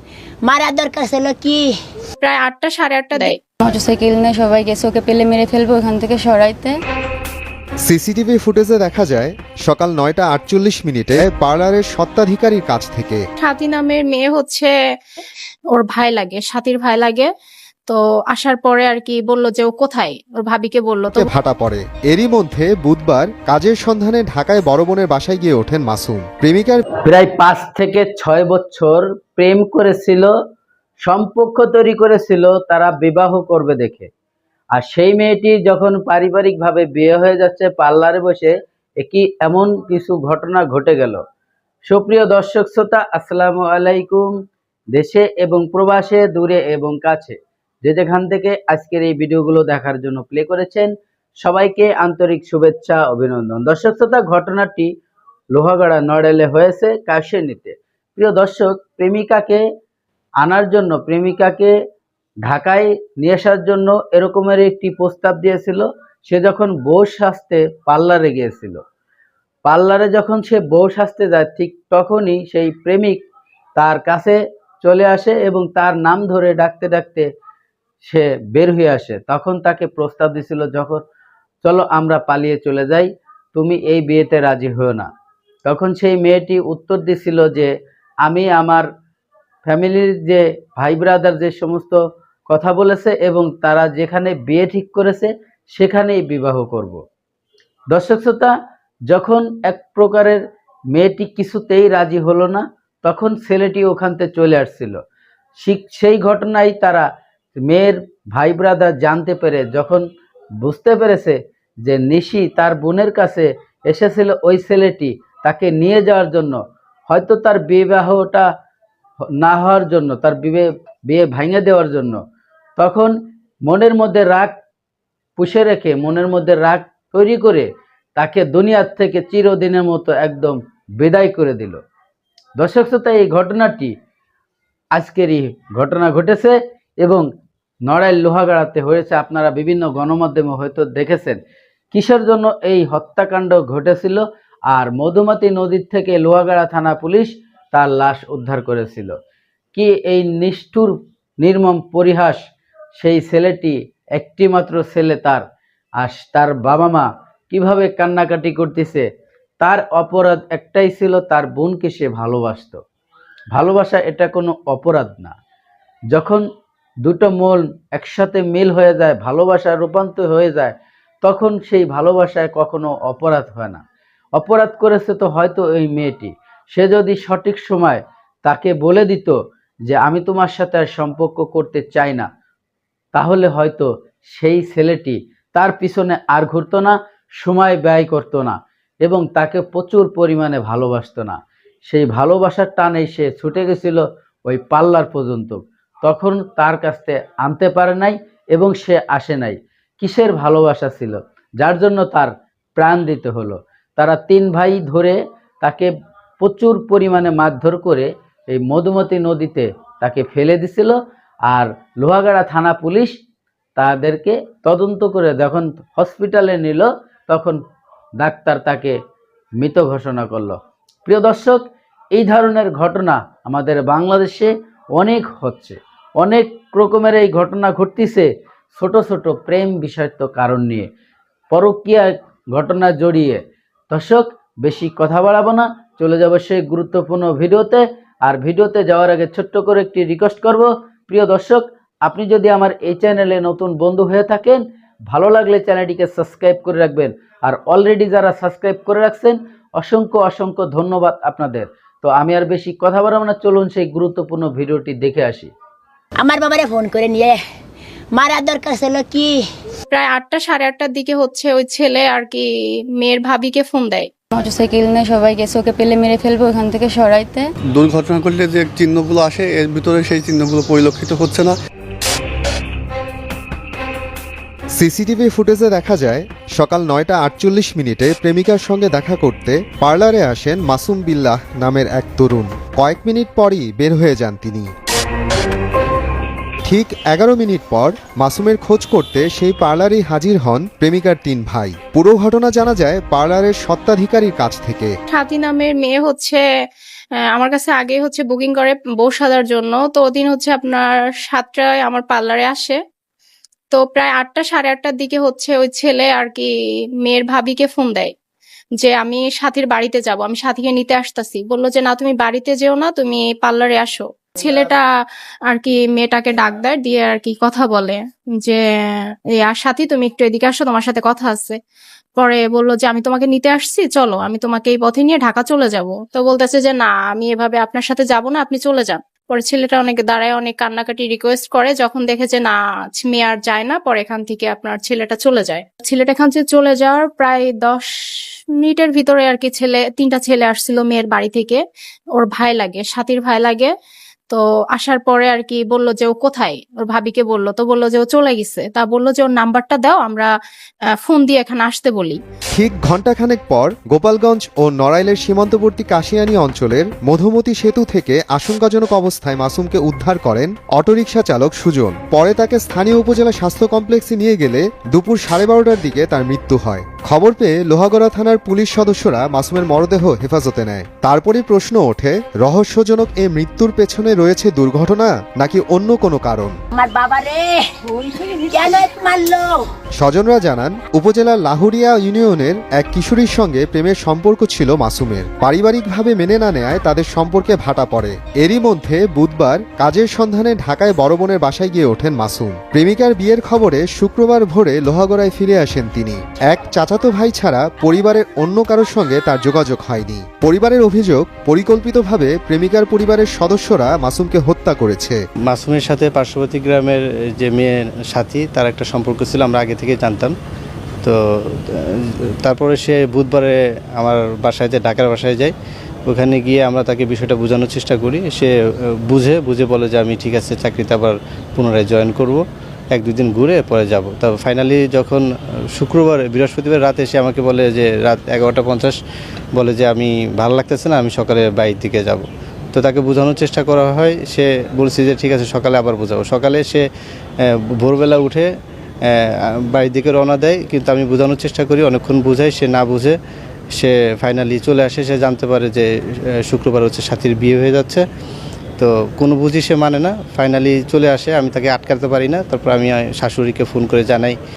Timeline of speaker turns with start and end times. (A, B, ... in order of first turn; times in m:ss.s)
0:00.4-0:01.7 A
0:02.2-0:03.4 B
0:03.6-0:06.7 C
0:07.8-0:13.2 D
0:13.4-0:14.7 B
0:15.7-0:17.3 B
0:17.9-0:21.3 B
0:21.1-0:26.8 D
0:27.0-0:30.3 E
0:31.0-0:34.1 E
0:34.7-0:41.2 E
0:41.9-0:44.3 E
0:44.9-0:54.9 E
0:55.5-0:59.6 E
1:00.4-1:01.7 E
1:02.4-1:08.8 E
1:09.6-1:13.2 E
1:13.8-1:17.3 E
1:18.0-1:21.0 E
1:21.6-1:25.1 E
1:25.6-1:27.7 E
1:28.2-1:28.9 E
1:29.6-1:37.0 E
1:37.9-1:38.5 E
1:39.1-1:40.4 E
1:40.9-1:45.0 E
1:45.6-1:50.0 E
1:50.6-1:58.5 E
1:59.4-2:02.2 E
2:02.8-2:03.1 E
2:03.7-2:04.5 E
2:05.4-2:11.8 E
2:12.6-2:13.9 E
2:14.9-2:17.2 E
2:17.8-2:21.4 E
2:21.9-2:29.2 E
2:29.7-2:32.4 E
2:33.0-2:35.4 E
2:36.0-2:39.1 E
2:39.6-2:42.8 E
2:43.5-2:45.3 E
2:46.1-2:46.4 E
2:47.0-2:53.8 E
2:54.4-3:02.3 E
3:03.1-3:25.9 E
3:26.4-3:31.0 E
3:31.5-3:33.2 E
3:33.8-3:37.6 E
3:38.2-3:39.0 E
3:39.6-3:41.6 E
3:42.1-3:50.9 E
3:51.5-4:15.5 E
4:16.2-4:17.4 A
4:18.1-4:19.4 A
4:19.9-4:22.4 B
4:23.0-4:24.0 B
4:24.3-4:27.5 C
4:27.7-4:31.5 F
4:34.8-4:44.7 D
4:46.6-4:54.9 D
4:55.1-4:56.4 B
4:57.3-5:02.8 B
5:03.7-5:06.5 B
5:07.0-5:08.1 B
5:08.8-5:14.8 B
5:15.5-5:18.6 B
5:19.4-5:21.6 B
5:22.2-5:37.9 B
5:38.6-5:41.6 B
5:42.2-5:43.7 B
5:44.3-5:50.3 B
5:51.0-5:52.2 B
5:52.5-6:16.5 D
6:16.7-6:17.7 A
6:18.2-6:19.6 A
6:20.0-6:45.2 D
6:45.5-6:46.5 G
6:48.2-6:50.3 G
6:52.4-6:55.5 G
6:56.1-6:58.5 G
6:59.1-7:02.4 G
7:02.9-7:05.2 G
7:05.8-7:08.9 G
7:09.6-7:16.8 G
7:17.8-7:18.5 G
7:19.7-7:23.1 G
7:23.8-7:25.8 G
7:26.5-7:28.0 G
7:28.8-7:34.3 G